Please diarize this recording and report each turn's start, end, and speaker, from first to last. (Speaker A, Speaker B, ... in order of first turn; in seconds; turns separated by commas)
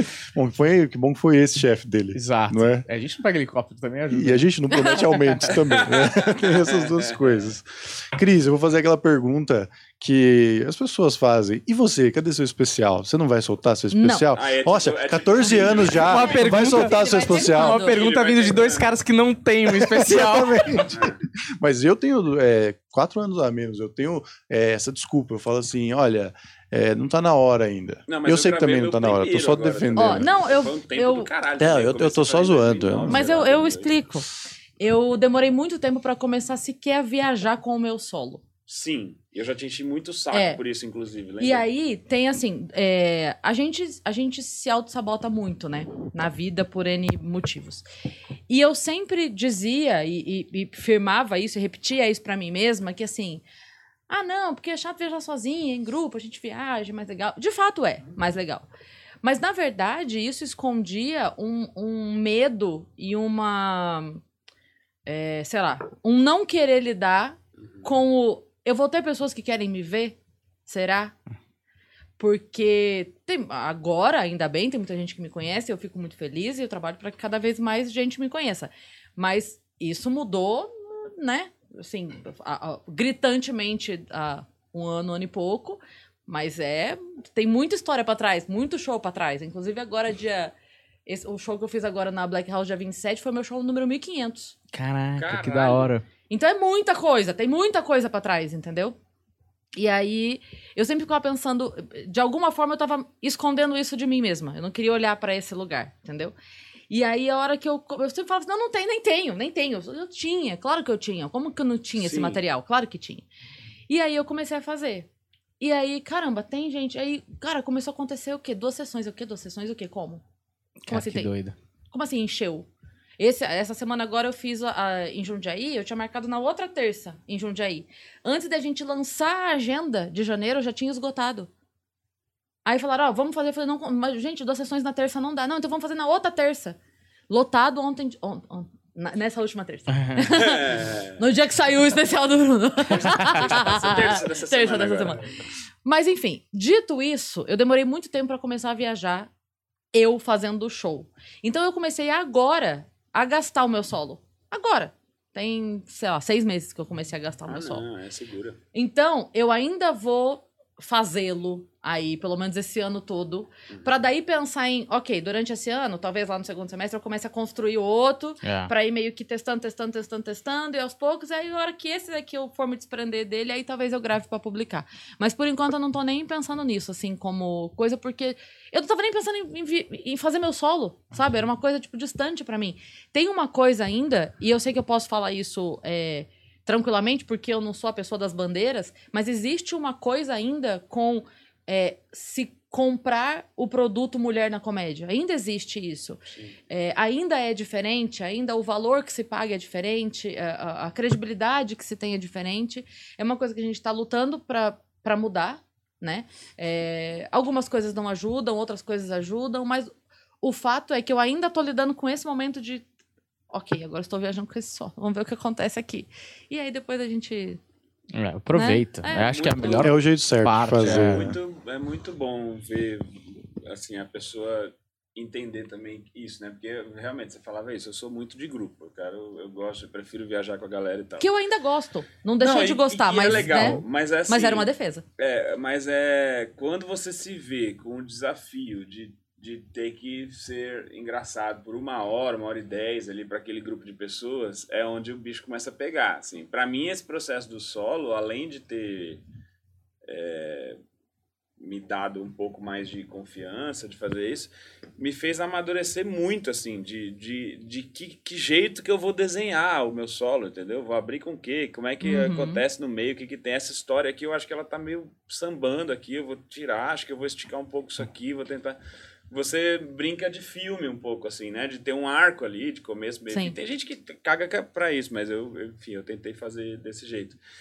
Speaker A: 0.3-2.9, Speaker B: 2.1-4.4, Speaker A: 4.1-17.8, Speaker C: 4.8-5.0, Speaker D: 5.7-7.2, Speaker C: 13.9-14.3, Speaker D: 14.3-16.3, Speaker B: 16.0-20.9, Speaker C: 16.1-18.0, Speaker D: 17.8-18.9, Speaker A: 19.7-30.3, Speaker D: 20.9-21.2, Speaker D: 28.1-33.9, Speaker C: 30.0-31.3, Speaker A: 31.6-33.3, Speaker C: 33.1-34.3, Speaker C: 34.8-38.4, Speaker D: 38.7-41.6, Speaker C: 40.3-40.6, Speaker C: 41.4-47.8, Speaker C: 48.5-53.4, Speaker C: 54.1-58.7, Speaker C: 59.2-64.2, Speaker C: 65.1-71.2, Speaker C: 72.2-90.5, Speaker C: 91.1-94.6, Speaker B: 94.7-96.0, Speaker D: 95.2-95.9, Speaker C: 96.3-99.0, Speaker C: 99.8-106.3, Speaker C: 106.9-113.3, Speaker D: 112.0-112.4, Speaker C: 113.9-115.1, Speaker C: 115.6-120.2, Speaker B: 120.8-121.5, Speaker C: 120.9-121.3, Speaker C: 121.9-122.7, Speaker C: 123.2-131.5, Speaker C: 132.7-136.8, Speaker C: 137.3-145.3, Speaker B: 139.9-140.2, Speaker D: 140.3-141.2, Speaker D: 142.9-145.2, Speaker C: 145.8-149.3, Speaker C: 149.9-157.8, Speaker D: 157.5-158.6, Speaker C: 158.7-196.2, Speaker B: 168.4-168.7, Speaker C: 196.7-209.9, Speaker C: 210.4-212.9, Speaker C: 213.5-217.6, Speaker B: 218.1-221.2, Speaker C: 218.5-219.9, Speaker D: 219.4-219.9, Speaker A: 219.8-221.4, Speaker D: 220.8-231.3, Speaker C: 231.2-235.0, Speaker D: 232.4-249.2, Speaker D: 250.1-250.8, Speaker D: 251.6-268.8, Speaker C: 262.0-262.6, Speaker D: 269.3-277.4